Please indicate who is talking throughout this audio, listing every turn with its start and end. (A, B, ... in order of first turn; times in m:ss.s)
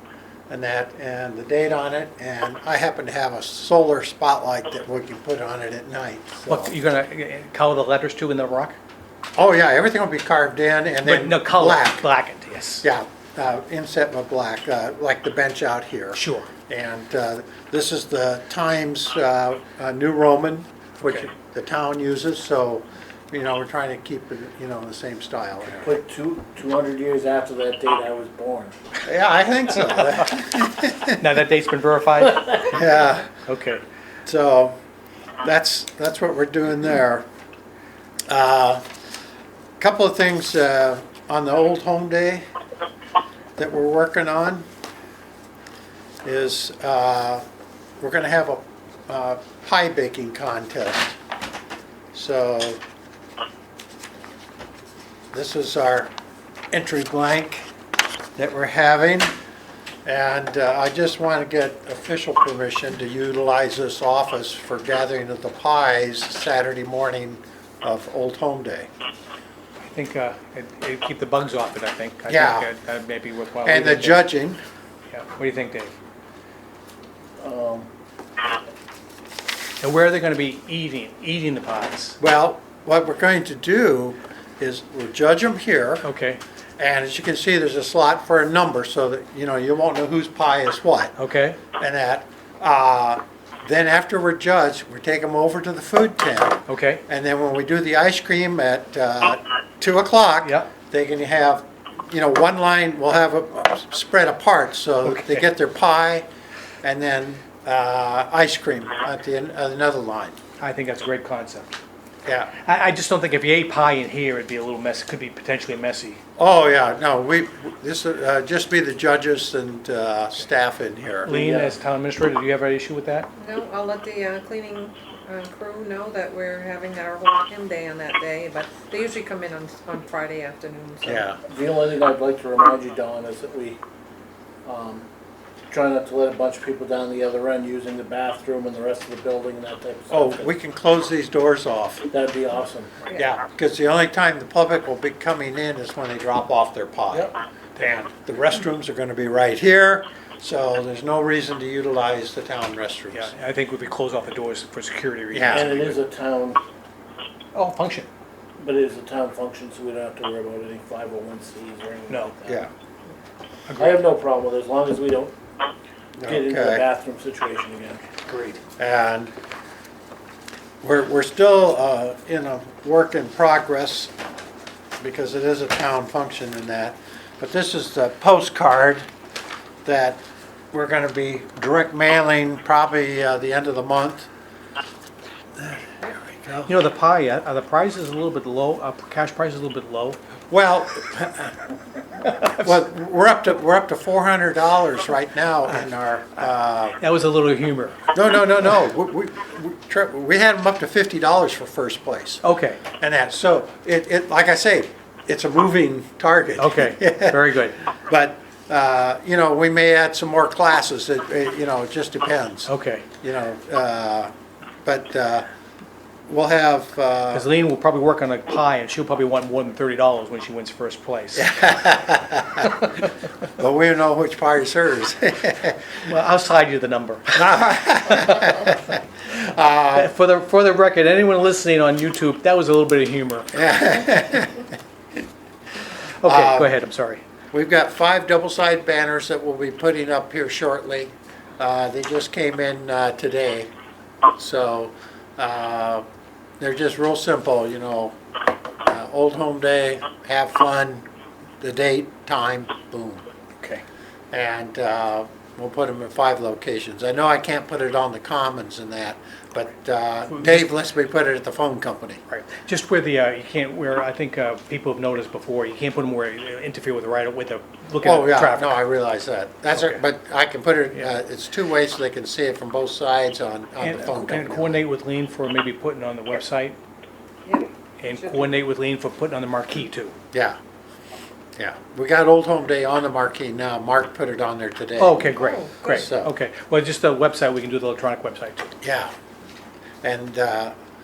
0:00.5-0:06.8 A
0:06.5-0:08.8 B
0:09.4-0:12.0 A
0:11.0-0:12.8 B
0:12.8-0:25.9 A
0:16.1-0:16.5 B
0:25.8-0:28.7 C
0:29.0-0:31.2 A
0:31.0-0:32.8 B
0:32.6-0:33.3 A
0:33.3-0:33.8 B
0:34.2-0:34.8 A
0:35.4-0:37.2 A
0:38.3-0:38.8 A
0:39.8-0:42.4 A
0:43.6-0:44.6 A
0:46.2-0:47.4 A
0:48.0-0:51.2 A
0:52.1-0:52.8 A
0:55.3-0:56.1 A
0:56.7-0:57.7 A
0:58.4-0:59.3 A
1:00.0-1:08.9 A
1:09.9-1:14.2 B
1:12.3-1:12.7 A
1:13.6-1:14.6 A
1:15.1-1:15.9 B
1:17.4-1:17.9 C
1:19.8-1:22.2 B
1:22.2-1:26.1 A
1:26.0-1:26.4 B
1:26.8-1:31.1 A
1:31.2-1:31.6 B
1:31.7-1:46.2 A
1:36.7-1:37.0 B
1:40.4-1:40.7 B
1:45.0-1:45.4 B
1:46.8-1:50.4 A
1:50.6-1:51.7 B
1:52.2-1:52.5 A
1:52.5-1:56.2 B
1:56.4-2:01.3 A
2:01.2-2:03.3 B
2:01.3-2:01.8 C
2:03.4-2:11.2 D
2:11.0-2:11.4 A
2:11.5-2:13.8 C
2:14.6-2:15.1 C
2:15.7-2:20.5 C
2:20.1-2:22.0 A
2:22.1-2:23.0 C
2:23.1-2:33.3 A
2:33.1-2:36.0 B
2:35.3-2:35.7 A
2:35.5-2:36.6 C
2:37.5-2:38.1 B
2:38.6-2:42.7 C
2:42.1-2:42.3 B
2:43.7-2:44.0 B
2:43.8-2:45.3 C
2:46.2-2:46.8 A
2:46.2-2:48.1 C
2:48.2-2:48.6 B
2:48.8-2:49.3 A
2:50.8-2:54.1 A
2:55.0-2:59.0 A
2:59.8-3:00.2 A
3:00.7-3:04.3 A
3:05.6-3:06.7 A
3:06.6-3:10.2 B
3:10.5-3:11.6 A
3:12.2-3:12.6 B
3:12.4-3:17.0 A
3:17.0-3:18.1 B
3:18.1-3:34.3 A
3:22.4-3:22.8 B
3:26.6-3:27.8 B
3:32.7-3:33.0 B
3:34.8-3:35.4 A
3:36.2-3:37.5 A
3:37.3-3:41.7 B
3:41.3-3:42.8 A
3:43.5-3:46.0 A
3:46.0-3:48.7 B
3:47.3-3:50.1 A
3:49.9-3:53.5 B
3:53.5-3:54.7 A
3:56.2-3:57.2 B
3:56.2-3:56.7 A
3:57.5-4:03.7 A
4:04.3-4:06.0 A
4:06.6-4:08.2 A
4:08.8-4:11.0 A
4:11.6-4:13.2 A
4:14.3-4:22.2 A
4:20.3-4:20.7 B
4:22.3-4:28.7 B
4:28.0-4:34.8 A
4:29.7-4:30.0 B
4:33.8-4:36.8 B
4:37.4-4:38.5 D
4:38.0-4:40.2 B
4:40.3-4:40.6 A
4:41.6-4:46.3 A
4:45.0-4:48.7 B
4:45.3-4:45.9 D
4:48.8-4:49.1 A
4:50.0-4:50.7 A